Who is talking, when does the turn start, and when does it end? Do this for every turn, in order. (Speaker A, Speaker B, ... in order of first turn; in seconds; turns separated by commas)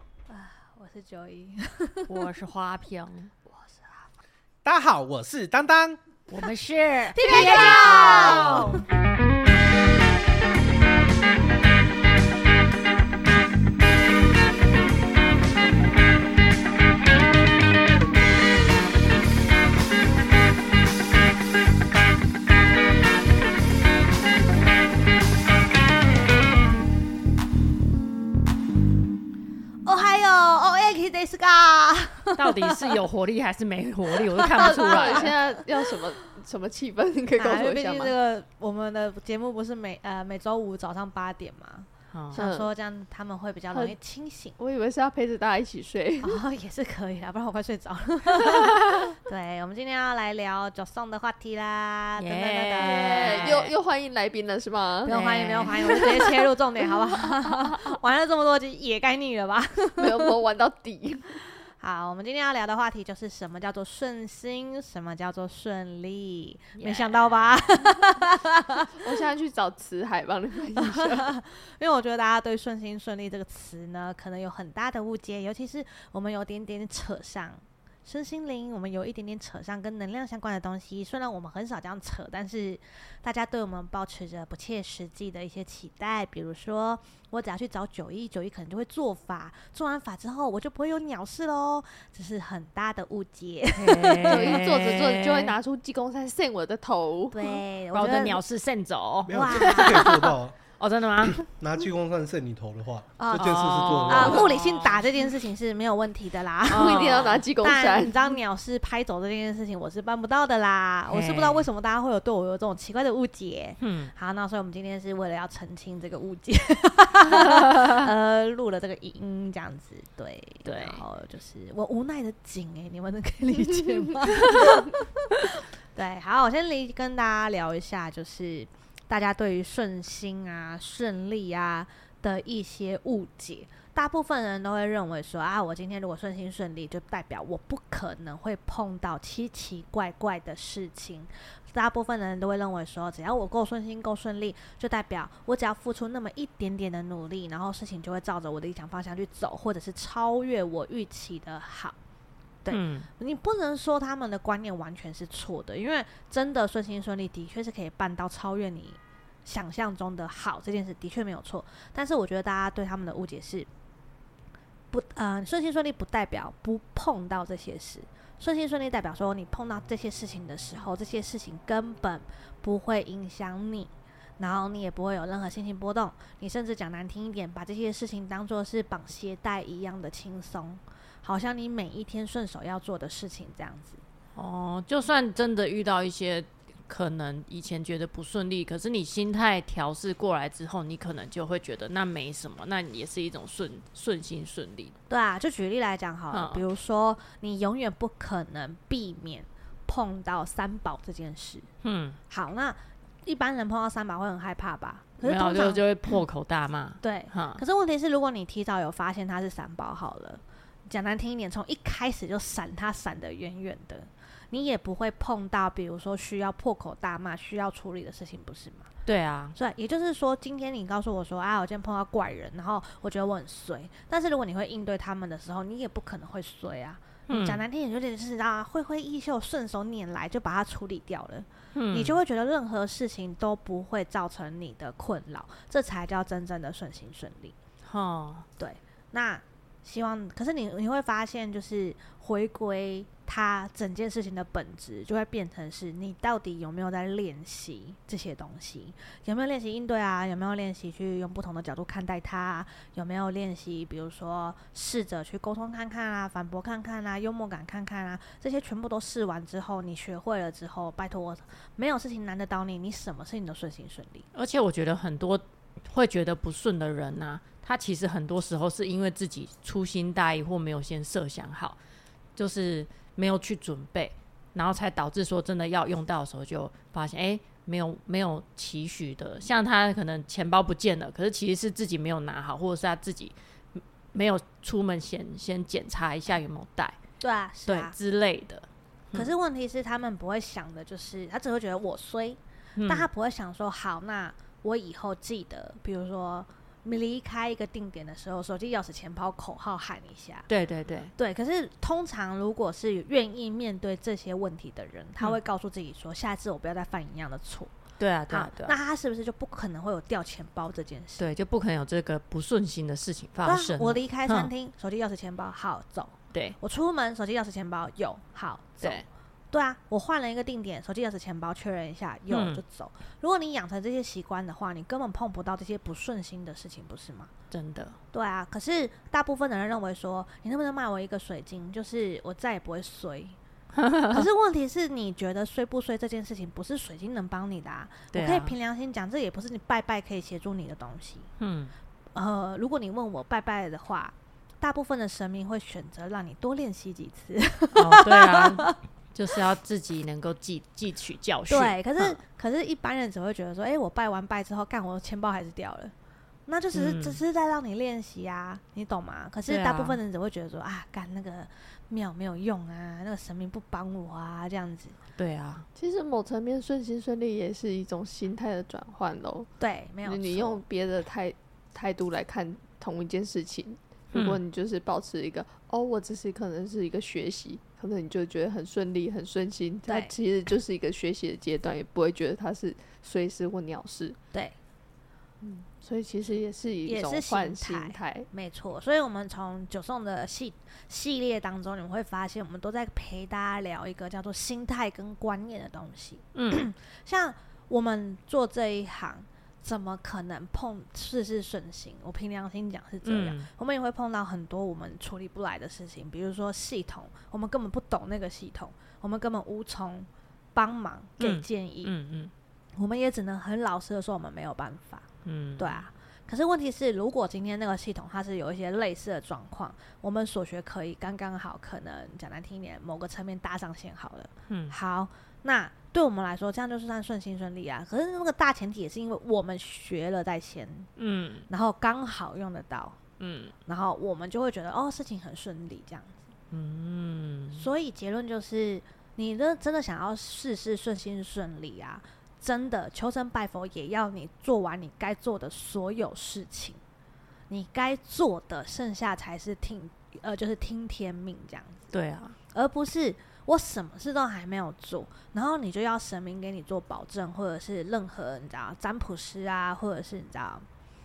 Speaker A: 0.3-2.1, Speaker B: 2.1-3.3, Speaker A: 3.5-3.9, Speaker C: 4.6-6.0, Speaker B: 6.3-8.3, Speaker A: 7.1-8.8, Speaker C: 7.2-8.6, Speaker A: 29.8-32.8, Speaker B: 32.4-35.3, Speaker A: 34.5-35.4, Speaker D: 34.6-38.1, Speaker A: 37.4-44.6, Speaker B: 42.1-42.4, Speaker D: 42.3-42.7, Speaker D: 43.7-44.0, Speaker D: 44.6-46.4, Speaker A: 46.2-53.5, Speaker B: 52.2-53.7, Speaker D: 52.8-55.1, Speaker A: 55.0-60.3, Speaker B: 55.0-55.8, Speaker D: 55.6-56.3, Speaker D: 57.5-57.8, Speaker D: 60.0-61.4, Speaker A: 61.8-68.9, Speaker B: 66.8-67.6, Speaker D: 69.0-71.3, Speaker A: 70.8-94.6, Speaker B: 93.7-95.5, Speaker D: 94.2-97.6, Speaker A: 97.3-98.4, Speaker B: 97.9-100.2, Speaker E: 99.3-100.6, Speaker A: 99.3-100.3, Speaker B: 100.8-101.4, Speaker E: 101.2-104.5, Speaker A: 103.2-152.0, Speaker B: 103.3-105.0, Speaker B: 106.7-107.4, Speaker D: 106.7-108.3, Speaker B: 111.1-111.7, Speaker B: 113.8-114.1, Speaker B: 117.3-117.9, Speaker B: 120.6-121.0, Speaker D: 124.4-124.7, Speaker A: 152.6-163.7, Speaker B: 152.7-153.1, Speaker A: 164.9-184.0, Speaker B: 184.3-194.9, Speaker A: 195.1-201.7, Speaker B: 196.3-196.6, Speaker B: 201.8-202.2, Speaker A: 202.3-206.2, Speaker B: 205.2-207.6, Speaker A: 207.0-218.9, Speaker B: 219.1-219.6, Speaker A: 219.5-237.5, Speaker B: 227.3-227.6, Speaker B: 231.7-232.2, Speaker B: 237.8-238.4, Speaker A: 238.6-264.2, Speaker B: 264.3-271.8, Speaker B: 272.4-287.0, Speaker A: 287.2-287.9, Speaker B: 287.6-289.3, Speaker A: 289.1-300.5, Speaker B: 292.8-293.1, Speaker B: 300.5-301.1, Speaker A: 301.1-307.7, Speaker B: 308.0-308.8, Speaker A: 308.3-311.2, Speaker B: 311.2-314.5, Speaker A: 313.4-327.3, Speaker B: 322.3-322.6, Speaker B: 327.5-328.0, Speaker A: 328.1-333.4, Speaker B: 333.7-334.2, Speaker A: 334.1-341.3, Speaker B: 338.1-338.6, Speaker B: 341.4-341.7, Speaker A: 342.1-348.8, Speaker B: 347.7-352.2, Speaker A: 351.5-355.9, Speaker A: 356.4-365.0, Speaker B: 356.7-357.2, Speaker B: 359.4-360.0, Speaker B: 365.2-365.6, Speaker D: 365.7-369.5, Speaker A: 369.6-370.6, Speaker D: 370.0-384.2, Speaker B: 374.1-374.4, Speaker A: 379.9-380.1, Speaker D: 385.4-388.3, Speaker A: 386.9-411.9, Speaker B: 396.3-396.7, Speaker B: 403.0-403.5, Speaker B: 411.2-412.3, Speaker A: 412.8-415.1, Speaker B: 415.2-415.9, Speaker A: 415.6-430.9, Speaker B: 424.5-424.8, Speaker B: 431.0-431.5, Speaker A: 431.5-433.0, Speaker B: 433.2-433.5, Speaker A: 433.6-436.2, Speaker B: 436.5-437.6, Speaker A: 437.5-446.8, Speaker A: 447.5-451.9, Speaker B: 451.9-452.4, Speaker A: 452.5-460.6